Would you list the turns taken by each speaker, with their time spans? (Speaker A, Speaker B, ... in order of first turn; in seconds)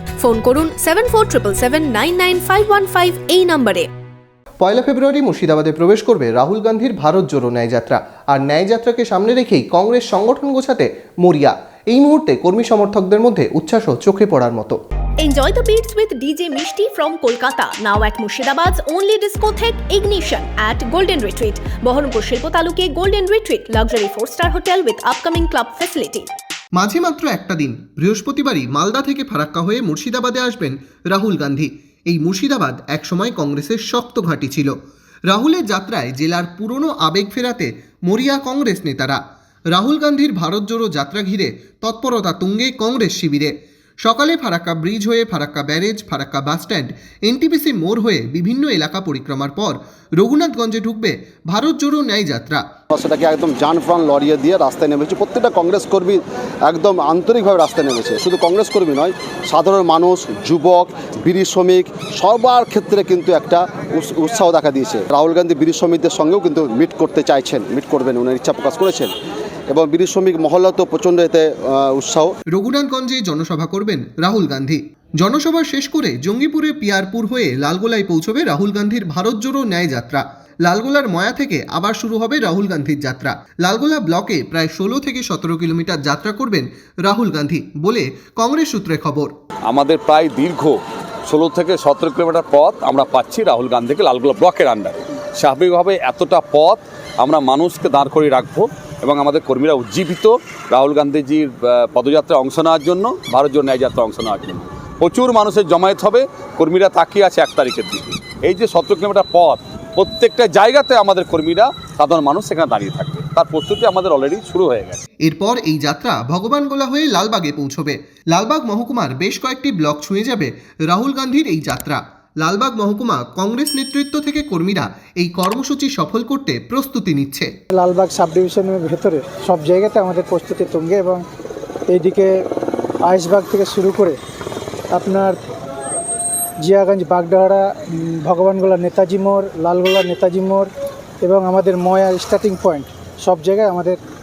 Speaker A: 0.2-3.9, 15.2-26.3
Speaker B: 4.6-14.8, 26.8-34.7, 35.3-39.2, 39.7-43.5, 44.0-52.6, 72.5-89.3, 115.2-127.5
Speaker C: 52.9-69.1, 69.7-72.3
Speaker D: 89.7-90.8, 91.3-115.0
Speaker E: 127.7-131.2, 131.9-132.4, 133.1-134.2, 134.9-135.4, 136.6-140.7, 141.2-144.0